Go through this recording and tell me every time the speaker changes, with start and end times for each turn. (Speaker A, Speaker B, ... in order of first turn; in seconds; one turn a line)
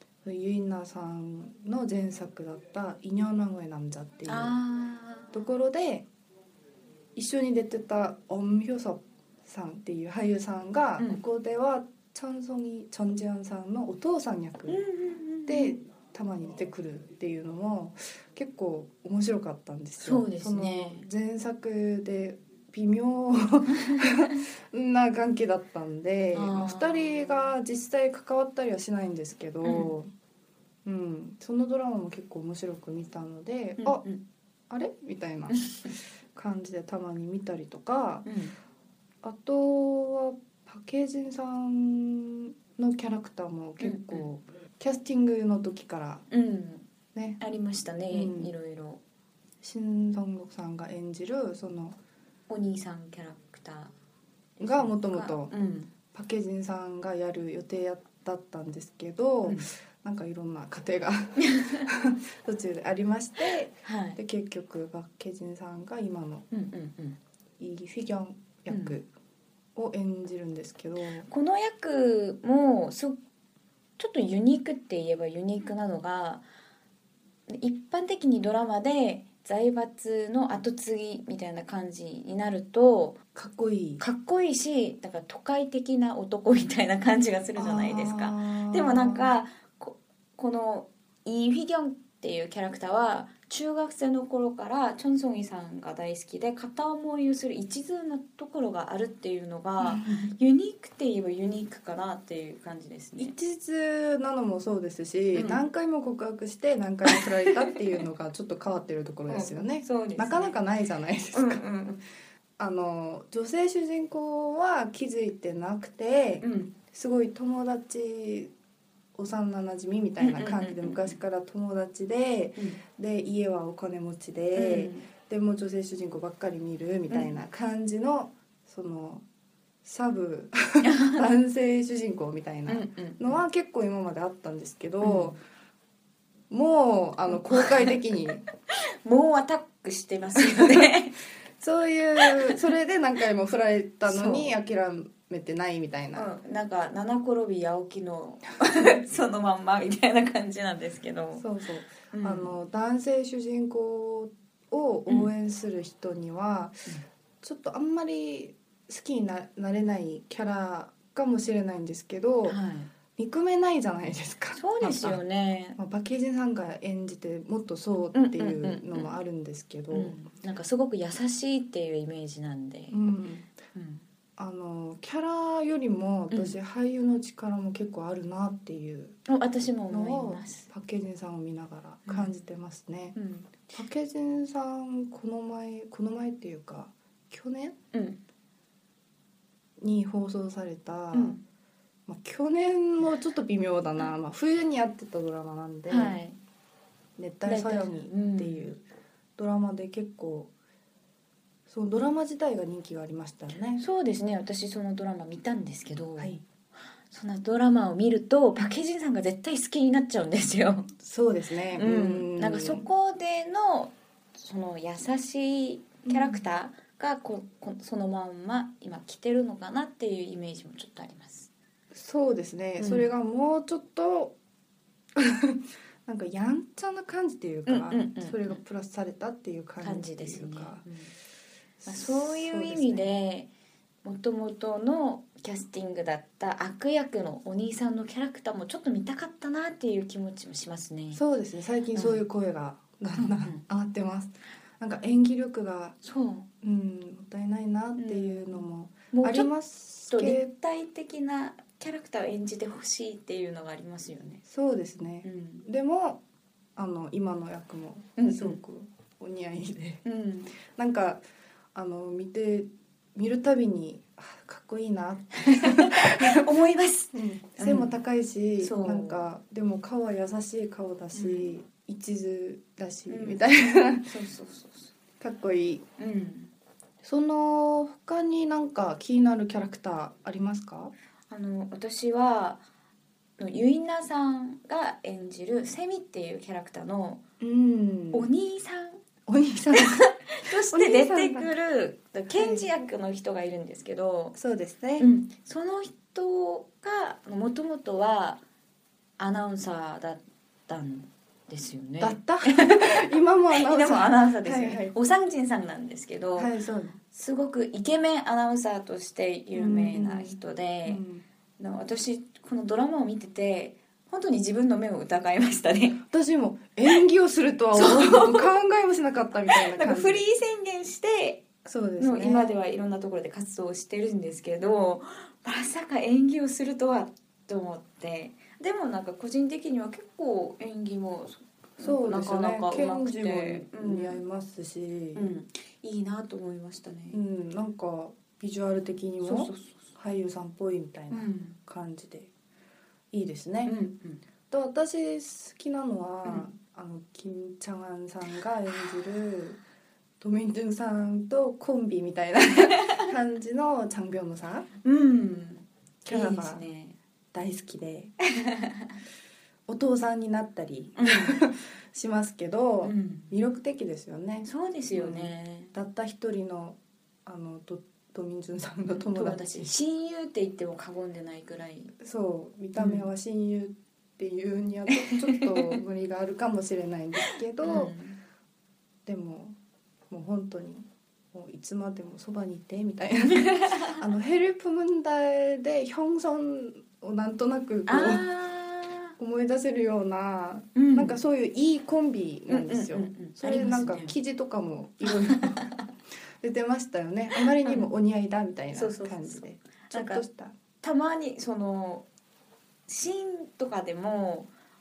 Speaker A: 0.2-4.5
Speaker B: 4.3-5.4
Speaker A: 5.3-6.1
Speaker A: 7.2-14.8
Speaker B: 14.7-15.8
Speaker A: 15.5-30.1
Speaker B: 20.0-21.1
Speaker B: 26.3-27.4
Speaker B: 29.6-29.9
Speaker A: 30.9-34.1
Speaker B: 33.8-34.2
Speaker A: 34.7-38.3
Speaker B: 35.6-35.9
Speaker B: 38.3-38.5
Speaker A: 39.2-46.2
Speaker B: 43.8-44.3
Speaker B: 46.3-46.9
Speaker A: 47.1-47.4
Speaker B: 47.4-49.0
Speaker A: 48.1-48.5
Speaker A: 49.6-52.0
Speaker B: 52.5-53.9
Speaker B: 54.6-55.9
Speaker A: 54.6-55.5
Speaker A: 56.1-66.5
Speaker B: 61.4-61.9
Speaker B: 63.8-64.2
Speaker B: 66.5-67.2
Speaker A: 67.6-69.1
Speaker B: 68.7-69.0
Speaker A: 69.8-71.3
Speaker B: 71.3-73.2
Speaker B: 74.0-76.4
Speaker B: 77.5-83.2
Speaker A: 83.3-84.0
Speaker B: 84.0-103.3
Speaker A: 87.6-89.3
Speaker A: 99.8-100.3
Speaker A: 103.2-111.6
Speaker B: 105.3-105.6
Speaker B: 107.1-107.8
Speaker B: 109.3-110.6
Speaker B: 111.3-112.0
Speaker A: 112.6-118.5
Speaker B: 116.4-116.7
Speaker A: 119.2-129.2
Speaker B: 120.2-121.2
Speaker B: 124.5-125.1
Speaker A: 129.8-135.4
Speaker B: 130.8-131.2
Speaker B: 132.7-133.4
Speaker B: 135.0-135.4
Speaker A: 136.5-138.4
Speaker B: 137.3-138.0
Speaker B: 139.0-141.2
Speaker A: 140.4-140.9
Speaker A: 141.6-146.3
Speaker B: 142.2-142.6
Speaker B: 144.0-144.5
Speaker B: 146.2-151.4
Speaker A: 151.4-156.9
Speaker B: 152.1-152.5
Speaker A: 157.4-162.6
Speaker B: 162.4-162.9
Speaker A: 163.2-165.2
Speaker B: 164.6-165.8
Speaker A: 165.8-170.2
Speaker B: 168.1-169.2
Speaker B: 169.9-173.0
Speaker A: 172.9-173.5
Speaker B: 173.8-174.1
Speaker A: 174.4-179.2
Speaker B: 179.3-180.7
Speaker A: 179.9-187.8
Speaker B: 182.1-182.3
Speaker B: 183.2-183.7
Speaker B: 187.9-188.2
Speaker A: 189.8-191.4
Speaker B: 191.1-191.4
Speaker A: 192.1-196.2
Speaker B: 195.9-196.4
Speaker A: 197.2-198.8
Speaker B: 197.4-198.7
Speaker A: 199.4-200.5
Speaker A: 201.7-203.8
Speaker B: 203.8-206.4
Speaker A: 206.2-206.4
Speaker B: 207.1-210.9
Speaker A: 211.0-212.9
Speaker B: 211.8-221.5
Speaker A: 216.1-216.4
Speaker A: 221.9-224.4
Speaker B: 222.8-223.1
Speaker A: 225.2-230.9
Speaker B: 227.7-228.6
Speaker B: 229.8-231.1
Speaker A: 231.8-233.1
Speaker B: 231.8-233.5
Speaker B: 234.0-241.2
Speaker A: 241.1-246.0
Speaker B: 241.9-242.2
Speaker B: 243.2-243.6
Speaker B: 246.0-246.5
Speaker A: 246.6-250.5
Speaker B: 248.0-249.5
Speaker B: 250.1-254.4
Speaker A: 254.5-256.2
Speaker B: 255.2-255.7
Speaker A: 256.8-260.0
Speaker B: 258.2-258.6
Speaker B: 260.1-260.6
Speaker A: 260.6-266.4
Speaker B: 265.4-267.9
Speaker A: 267.1-274.1
Speaker B: 268.6-269.2
Speaker B: 271.1-271.5
Speaker B: 273.1-273.4
Speaker B: 274.1-274.9
Speaker A: 275.2-275.9
Speaker B: 276.0-276.5
Speaker A: 277.0-280.9
Speaker B: 281.3-282.6
Speaker B: 283.4-287.2
Speaker A: 287.4-288.3
Speaker B: 288.1-289.0
Speaker A: 289.3-290.1
Speaker B: 289.8-294.4
Speaker A: 290.7-291.5
Speaker A: 292.4-292.7
Speaker A: 294.4-295.1
Speaker B: 295.0-298.4
Speaker B: 299.2-306.5
Speaker A: 302.0-305.0
Speaker A: 306.4-307.0
Speaker B: 307.1-311.0
Speaker A: 309.6-311.2
Speaker B: 311.6-316.0
Speaker A: 316.1-320.2
Speaker B: 317.7-318.5
Speaker B: 319.5-321.4
Speaker A: 321.6-322.6
Speaker B: 322.0-334.2
Speaker A: 331.8-335.3
Speaker B: 335.1-337.2
Speaker A: 337.1-342.3
Speaker B: 339.2-339.9
Speaker B: 341.1-341.6
Speaker A: 343.1-343.7
Speaker B: 343.6-344.2
Speaker A: 344.5-349.6
Speaker B: 346.2-346.5
Speaker A: 350.2-354.7
Speaker B: 354.8-357.0
Speaker A: 356.1-356.6
Speaker A: 357.3-358.1
Speaker A: 359.7-369.7
Speaker B: 361.0-361.5
Speaker B: 362.8-363.3
Speaker B: 364.4-365.7
Speaker B: 368.9-371.9
Speaker A: 372.0-377.9
Speaker B: 372.8-373.1
Speaker B: 375.3-375.8
Speaker B: 377.6-378.2
Speaker A: 379.1-379.6
Speaker A: 380.1-388.3
Speaker B: 383.5-383.9
Speaker B: 387.9-389.2
Speaker A: 389.2-395.6
Speaker B: 390.8-391.2
Speaker B: 392.5-394.1
Speaker A: 396.4-400.6
Speaker B: 398.7-400.2
Speaker B: 400.8-402.1
Speaker B: 402.9-404.5